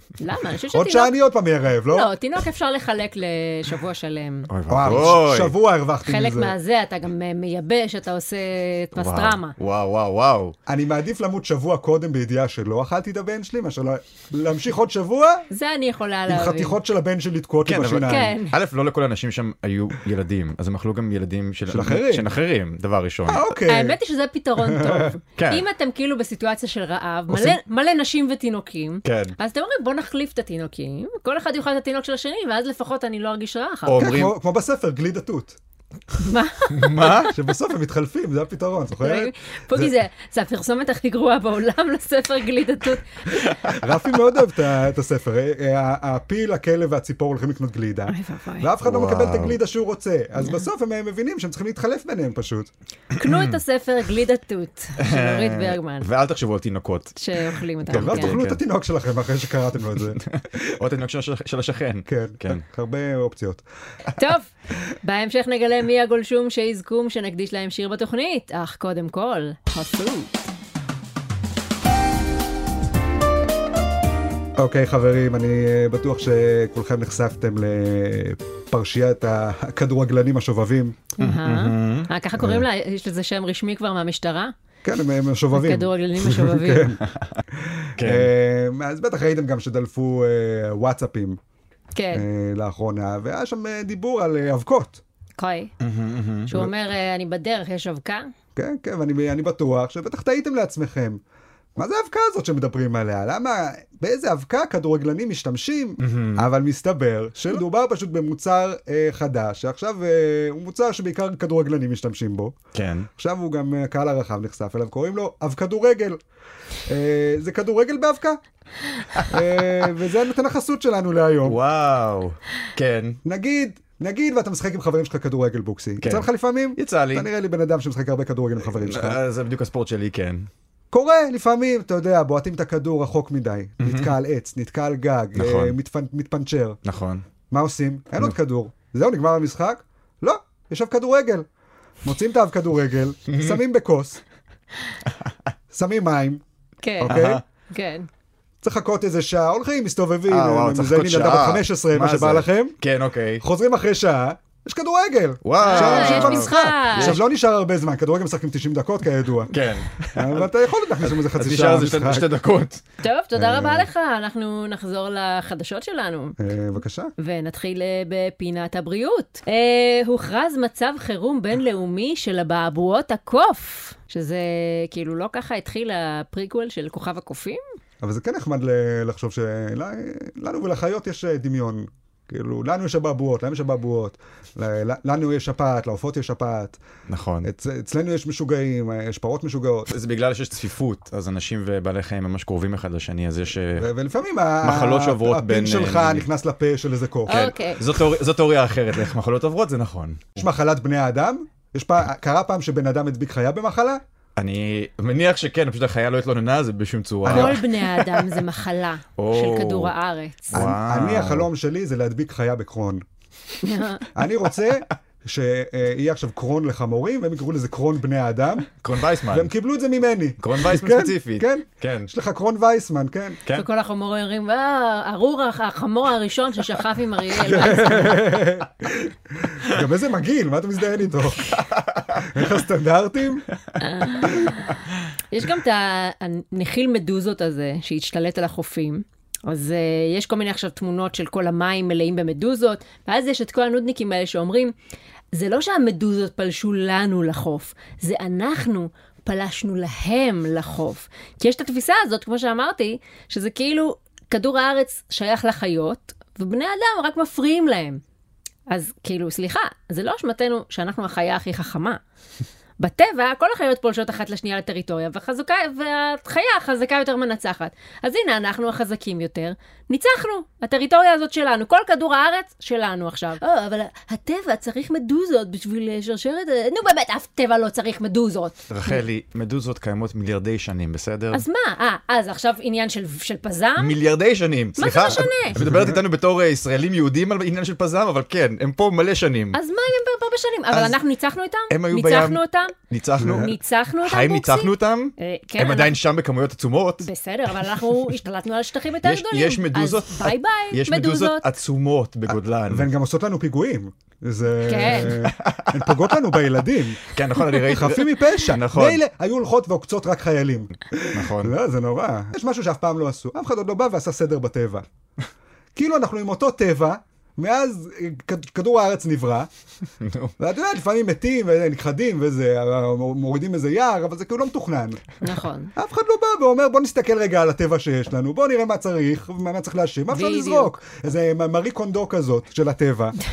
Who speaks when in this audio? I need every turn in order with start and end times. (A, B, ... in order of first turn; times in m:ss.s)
0:00.2-0:01.2 A
0:00.7-0:02.1 B
0:01.9-0:04.5 A
0:04.5-0:05.5 C
0:04.7-0:06.6 B
0:06.0-0:09.6 A
0:09.0-0:10.6 C
0:10.7-0:15.5 B
0:15.5-0:16.8 A
0:16.3-0:18.3 B
0:17.7-0:23.5 C
0:18.0-0:18.6 A
0:21.7-0:22.3 B
0:23.3-0:24.0 B
0:23.7-0:34.1 A
0:24.6-0:25.1 B
0:25.4-0:25.6 C
0:27.3-0:27.6 B
0:29.0-0:29.4 C
0:33.9-0:34.3 C
0:34.0-0:35.6 B
0:36.2-0:37.3 A
0:36.7-0:37.3 C
0:37.3-0:39.9 B
0:39.0-0:43.5 A
0:43.5-0:43.8 C
0:43.8-0:52.7 B
0:48.1-0:48.7 A
0:48.8-0:49.6 C
0:53.2-0:53.6 C
0:53.2-0:56.1 A
0:55.0-0:57.2 C
0:57.2-0:58.4 A
0:57.9-0:58.6 C
0:57.9-1:00.2 B
1:00.1-1:02.6 C
1:02.1-1:03.6 B
1:04.2-1:04.5 A
1:05.0-1:10.5 A
1:14.6-1:21.0 B
1:21.2-1:24.5 A
1:21.2-1:22.1 C
1:22.4-1:22.6 B
1:24.8-1:27.0 B
1:25.5-1:27.0 A
1:27.6-1:31.4 B
1:28.0-1:28.3 C
1:32.0-1:32.2 A
1:32.1-1:35.0 B
1:35.4-1:35.7 A
1:35.8-1:36.6 C
1:36.5-1:38.3 A
1:38.6-1:41.2 B
1:41.8-1:52.6 B
1:46.0-1:46.5 C
1:52.7-1:53.1 C
1:53.2-1:56.2 B
1:56.9-1:58.4 B
1:59.3-2:01.6 B
2:01.5-2:03.2 C
2:03.2-2:09.2 B
2:06.0-2:07.3 C
2:08.7-2:10.5 C
2:10.9-2:16.8 B
2:13.8-2:14.1 C
2:15.4-2:15.8 C
2:16.8-2:17.2 C
2:17.5-2:21.5 B
2:22.0-2:24.2 B
2:23.3-2:23.6 C
2:25.7-2:26.4 B
2:26.8-2:27.2 A
2:27.0-2:27.4 B
2:27.1-2:27.4 C
2:27.7-2:28.1 A
2:28.6-2:32.8 B
2:30.3-2:33.4 C
2:33.4-2:39.5 B
2:35.4-2:37.2 C
2:35.6-2:37.2 A
2:39.5-2:40.5 C
2:40.1-2:42.3 B
2:41.0-2:42.8 C
2:43.0-2:46.4 A
2:43.4-2:43.9 B
2:46.4-2:47.1 B
2:47.2-2:57.6 A
2:58.0-3:06.8 B
3:07.1-3:07.5 C
3:07.4-3:09.9 B
3:09.9-3:13.9 C
3:13.8-3:17.4 B
3:14.6-3:16.2 C
3:17.2-3:17.8 A
3:17.3-3:20.4 C
3:20.4-3:24.0 B
3:24.4-3:28.4 C
3:27.2-3:27.6 B
3:27.3-3:30.6 A
3:29.2-3:29.9 C
3:30.5-3:31.5 C
3:30.5-3:33.0 B
3:33.6-3:34.1 A
3:34.1-3:38.7 B
3:38.8-3:39.5 C
3:39.3-3:43.4 B
3:40.4-3:42.1 C
3:43.5-3:48.2 A
3:47.4-3:53.4 B
3:51.6-3:52.2 C
3:53.8-4:04.7 A
4:05.3-4:18.0 A
4:18.7-4:22.0 A
4:22.8-4:39.0 A
4:38.7-4:41.4 C
4:41.3-4:44.0 A
4:43.8-4:49.6 C
4:44.8-4:45.6 A
4:45.6-4:46.0 B
4:49.5-4:56.0 A
4:51.7-4:57.1 C
4:53.2-4:53.5 B
4:57.0-5:01.5 A
4:59.0-5:02.9 C
5:02.3-5:14.9 B
5:04.6-5:05.2 A
5:05.1-5:06.2 C
5:07.1-5:09.0 C
5:11.1-5:11.5 C
5:15.8-5:19.5 B
5:20.0-5:20.3 C
5:20.4-5:25.0 B
5:25.2-5:25.7 A
5:25.8-5:33.2 B
5:30.1-5:30.8 A